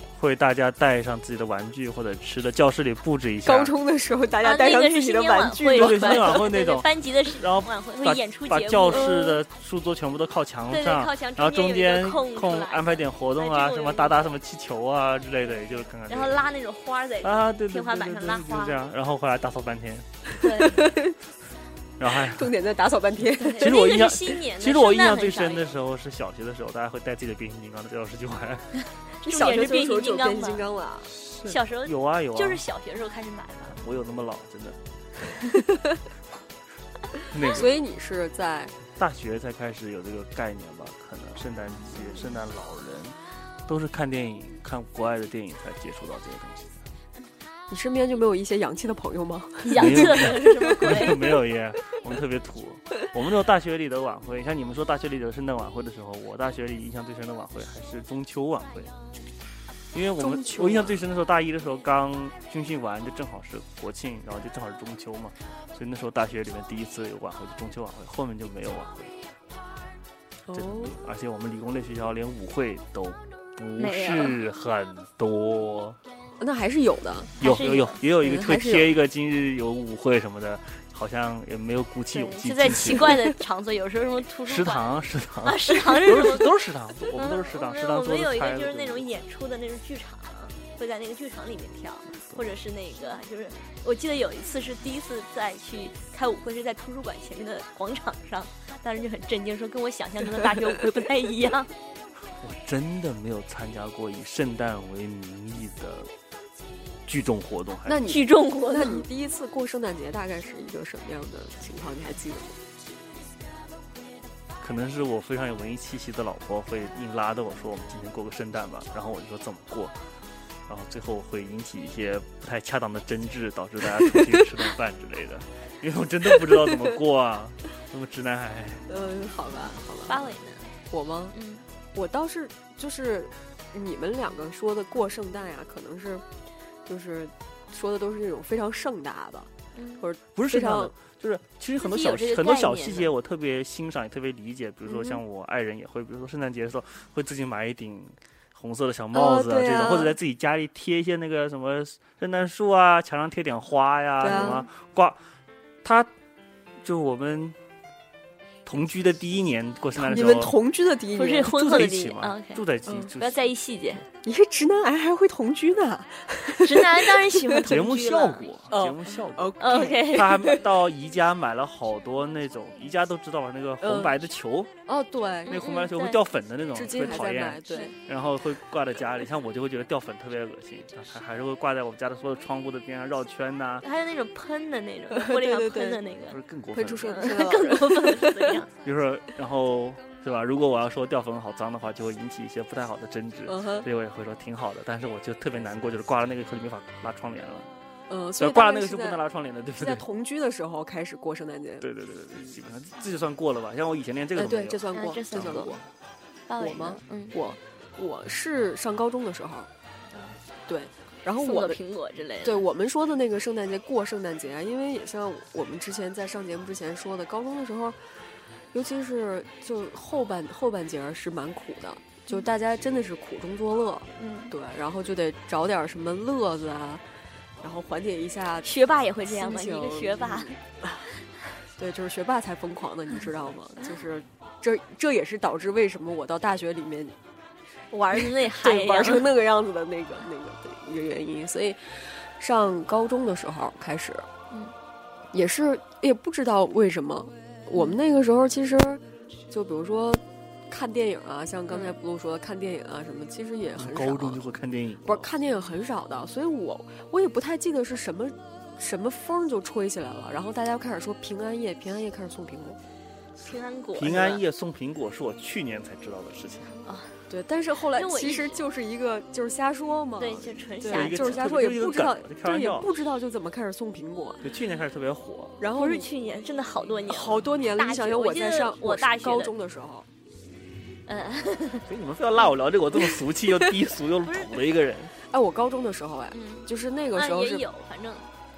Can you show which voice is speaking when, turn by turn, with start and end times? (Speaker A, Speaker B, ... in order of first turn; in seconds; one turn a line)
Speaker A: 0.1-3.7
Speaker B: 3.5-6.5
Speaker C: 4.4-9.4
Speaker A: 5.7-16.4
Speaker B: 8.9-9.2
Speaker C: 10.7-14.3
Speaker C: 16.1-18.8
Speaker A: 17.2-20.3
Speaker C: 20.4-20.8
Speaker B: 20.6-21.2
Speaker A: 22.0-22.5
Speaker B: 22.2-23.7
Speaker C: 23.4-25.6
Speaker A: 23.6-28.8
Speaker C: 29.2-30.6
Speaker B: 29.2-31.1
Speaker A: 31.1-32.6
Speaker C: 31.4-33.8
Speaker A: 33.7-34.8
Speaker A: 37.3-37.7
Speaker B: 37.5-38.8
Speaker A: 38.9-43.1
Speaker A: 43.7-46.9
Speaker B: 47.7-51.2
Speaker C: 49.6-51.2
Speaker A: 49.8-58.9
Speaker A: 59.9-69.2
Speaker B: 60.2-61.0
Speaker B: 70.5-71.0
Speaker A: 70.5-76.0
Speaker C: 73.8-74.4
Speaker B: 76.4-77.4
Speaker C: 77.4-78.0
Speaker A: 77.4-83.3
Speaker B: 78.2-79.0
Speaker C: 82.1-84.9
Speaker A: 84.5-89.1
Speaker C: 85.5-86.5
Speaker C: 87.1-101.7
Speaker A: 102.4-106.1
Speaker A: 107.1-108.1
Speaker B: 107.9-112.6
Speaker C: 108.1-109.0
Speaker A: 114.6-120.0
Speaker A: 120.7-128.9
Speaker B: 124.1-124.3
Speaker B: 128.9-130.3
Speaker C: 130.1-130.7
Speaker B: 130.9-131.3
Speaker C: 131.3-131.6
Speaker B: 131.9-136.2
Speaker B: 136.9-140.9
Speaker C: 139.7-140.1
Speaker A: 140.3-155.2
Speaker C: 141.8-143.1
Speaker B: 144.9-145.2
Speaker B: 149.1-150.2
Speaker B: 154.2-154.7
Speaker A: 155.8-156.1
Speaker A: 156.8-157.6
Speaker A: 158.7-160.6
Speaker B: 160.0-161.8
Speaker C: 161.2-162.6
Speaker A: 161.5-163.4
Speaker C: 163.2-164.0
Speaker B: 164.2-167.6
Speaker C: 166.6-168.5
Speaker A: 167.7-174.7
Speaker B: 168.7-170.7
Speaker C: 169.6-170.4
Speaker B: 173.8-174.1
Speaker B: 174.9-175.6
Speaker C: 175.5-176.2
Speaker A: 175.5-183.8
Speaker B: 176.8-177.9
Speaker C: 183.8-186.4
Speaker B: 185.1-186.0
Speaker A: 186.3-187.2
Speaker B: 186.8-188.5
Speaker C: 187.1-188.7
Speaker A: 188.8-197.7
Speaker B: 193.5-193.9
Speaker B: 198.1-199.2
Speaker A: 198.4-200.1
Speaker B: 199.8-201.9
Speaker A: 201.8-205.8
Speaker B: 204.4-205.8
Speaker C: 204.9-205.7
Speaker C: 206.5-207.3
Speaker B: 206.6-209.7
Speaker B: 210.7-211.8
Speaker C: 211.4-212.6
Speaker B: 212.4-218.0
Speaker B: 218.7-227.0
Speaker C: 224.2-224.5
Speaker B: 227.6-231.1
Speaker C: 228.6-230.5
Speaker B: 231.8-237.2
Speaker C: 237.9-239.3
Speaker B: 238.1-244.3
Speaker B: 245.3-254.4
Speaker A: 253.8-255.3
Speaker B: 255.1-262.8
Speaker C: 263.4-264.4
Speaker A: 264.0-266.7
Speaker C: 266.9-267.1
Speaker B: 267.3-274.4
Speaker C: 267.9-268.6
Speaker C: 270.2-271.6
Speaker A: 270.9-272.9
Speaker A: 274.4-275.6
Speaker B: 275.6-276.1
Speaker C: 275.8-279.5
Speaker B: 277.1-280.1
Speaker C: 281.1-281.9
Speaker A: 281.9-285.1
Speaker C: 284.2-284.5
Speaker B: 285.3-287.6
Speaker C: 286.3-288.3